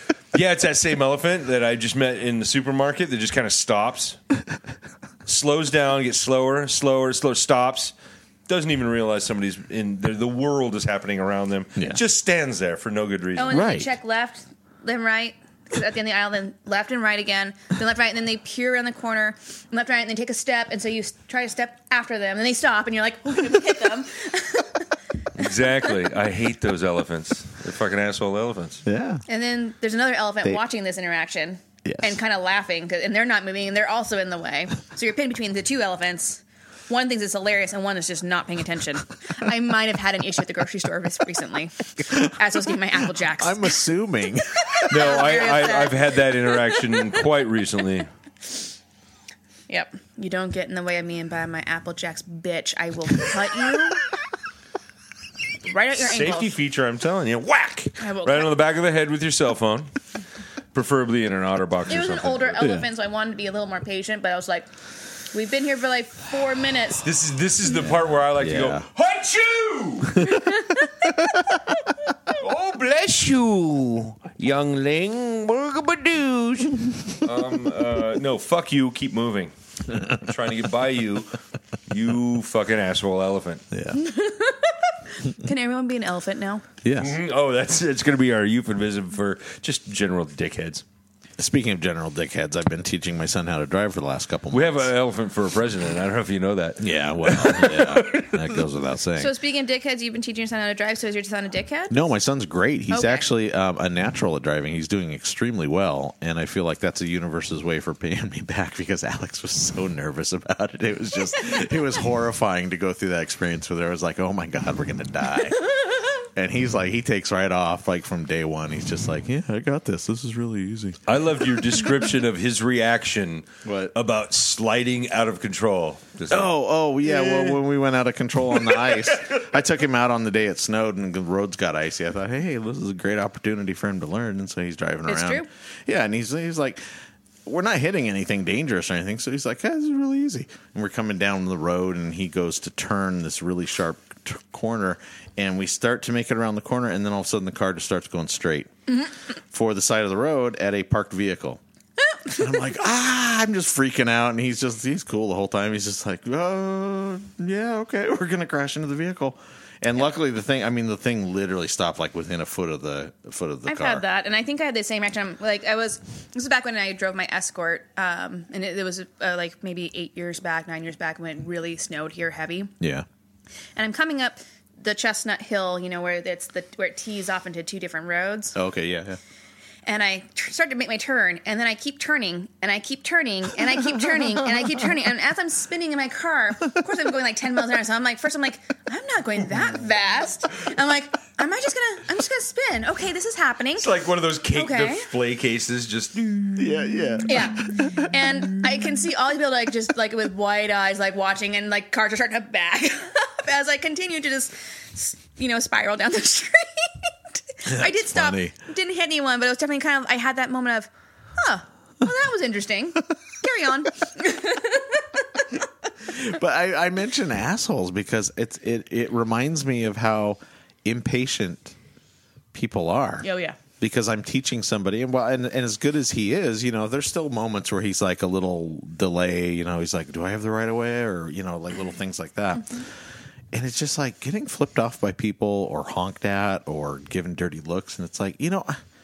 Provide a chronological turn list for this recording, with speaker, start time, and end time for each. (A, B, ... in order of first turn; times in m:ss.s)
0:00.3-0:04.2 A
0:05.2-0:07.9 A
0:08.5-0:13.5 A
0:13.4-0:24.8 B
0:13.5-0:13.9 C
0:25.4-0:28.8 A
0:28.8-0:29.2 C
0:29.3-0:43.8 B
0:31.8-0:32.1 C
0:43.4-0:45.1 C
0:44.7-0:46.8 B
0:44.9-0:48.1 A
0:49.7-0:54.0 B
0:55.6-0:56.6 B
0:56.0-0:59.9 A
0:58.0-0:58.5 B
1:00.7-1:02.6 A
1:01.9-1:04.7 B
1:02.6-1:02.8 C
1:05.3-1:07.0 B
1:07.0-1:10.3 A
1:07.8-1:08.8 C
1:10.2-1:10.5 C
1:10.3-1:10.8 B
1:11.2-1:11.6 C
1:12.3-1:21.4 A
1:21.9-1:23.6 A
1:23.7-1:24.0 C
1:23.9-1:26.6 B
1:26.8-1:27.2 C
1:27.0-1:30.8 A
1:31.4-1:34.9 C
1:34.5-1:38.6 A
1:36.8-1:39.3 C
1:39.2-1:41.9 B
1:41.9-2:01.0 C
1:42.9-1:43.2 B
2:01.0-2:06.5 A
2:03.6-2:03.9 C
2:06.3-2:16.8 C
2:07.0-2:07.6 A
2:08.5-2:09.4 A
2:15.1-2:15.5 B
2:17.4-2:28.7 C
2:29.5-2:31.6 C
2:32.3-2:44.0 C
2:43.6-2:52.7 B
2:52.8-2:53.0 C
2:53.8-2:58.6 B
2:58.6-2:59.2 C
2:59.8-3:13.9 B
3:13.8-3:17.2 A
3:14.5-3:15.1 B
3:16.6-3:18.0 C
3:17.2-3:35.4 B
3:27.6-3:28.5 C
3:36.0-3:41.8 C
3:42.5-3:43.3 C
3:43.2-3:43.6 B
3:43.8-3:52.8 C
3:53.5-3:58.8 C